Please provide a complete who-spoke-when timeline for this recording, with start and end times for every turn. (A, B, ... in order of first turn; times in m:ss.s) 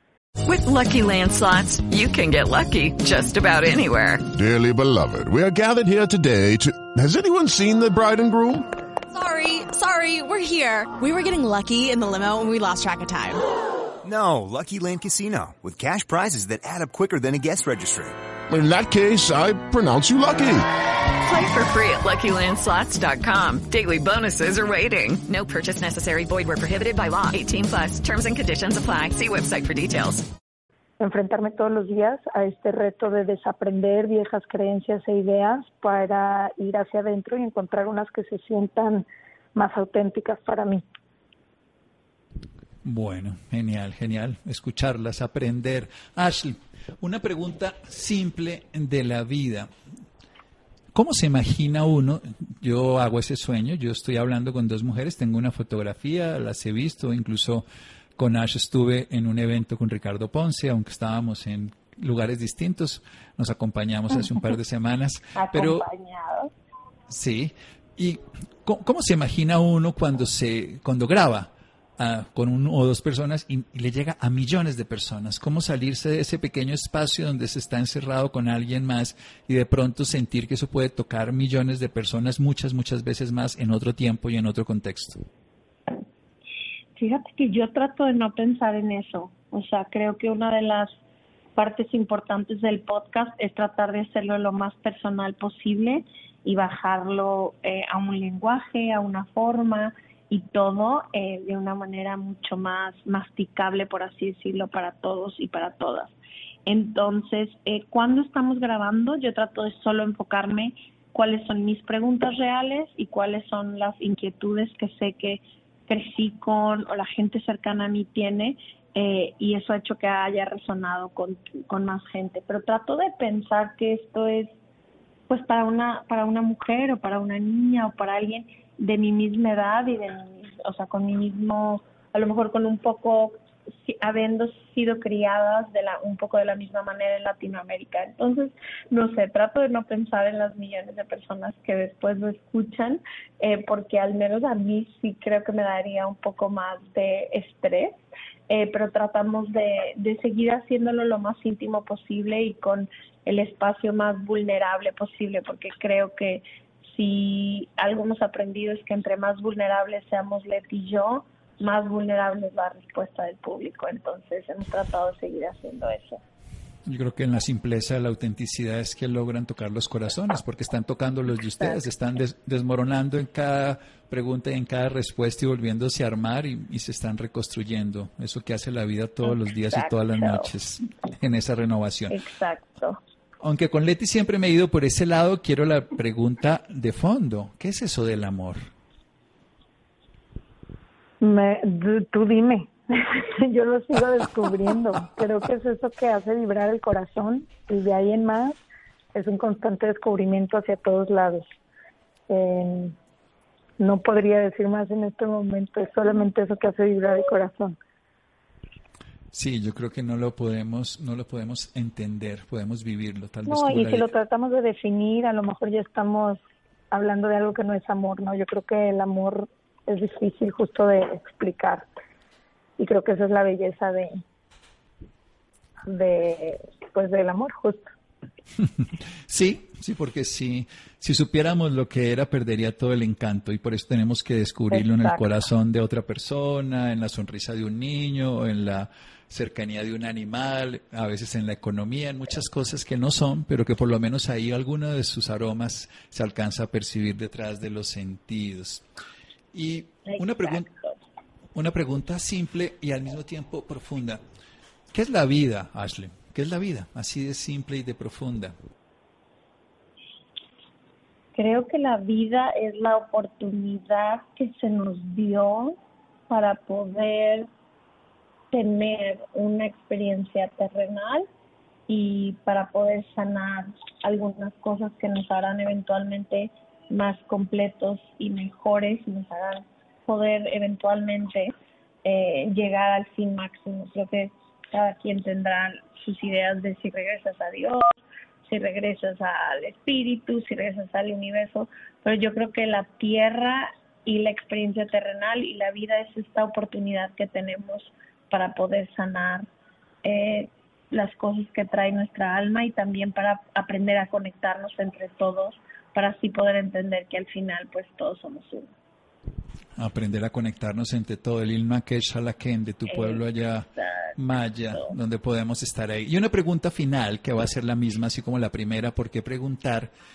0:00.4-0:04.2 A
0:04.3-0:08.7 B
0:09.1-0:13.4 C
0:14.0-0:18.2 D
0:18.5-0:20.7 B
0:21.2-0:30.3 A
0:31.0-0:40.8 E
0:42.8-0:49.7 F
0:50.9-0:57.6 F
0:58.2-1:05.8 F
1:05.4-1:06.5 G
1:07.1-1:25.2 F
1:27.0-1:30.9 G
1:31.6-1:46.1 G
1:46.7-2:04.6 G
2:05.3-2:28.0 G
2:28.5-2:46.2 G
2:46.8-3:02.2 F
2:59.3-3:00.5 G
3:02.1-3:03.0 G
3:03.4-3:08.7 F
3:11.2-3:18.6 E
3:19.1-3:21.4 E
3:22.3-3:23.0 E
3:23.8-3:27.8 E
3:29.3-3:34.1 F
3:33.5-3:41.9 E
3:42.8-3:44.2 E
3:45.8-3:47.9 E
3:49.3-4:08.8 F
3:54.7-3:55.2 E
4:09.5-4:10.7 F
4:10.0-4:11.0 G
4:11.5-4:14.2 F
4:14.9-4:18.5 F
4:21.4-4:25.8 G
4:26.3-4:27.5 G
4:28.5-4:31.3 G
4:31.9-4:41.5 G
4:42.0-4:59.5 G
5:00.0-5:08.7 G
5:09.8-5:19.9 F
5:12.9-5:13.2 G
5:13.7-5:14.2 G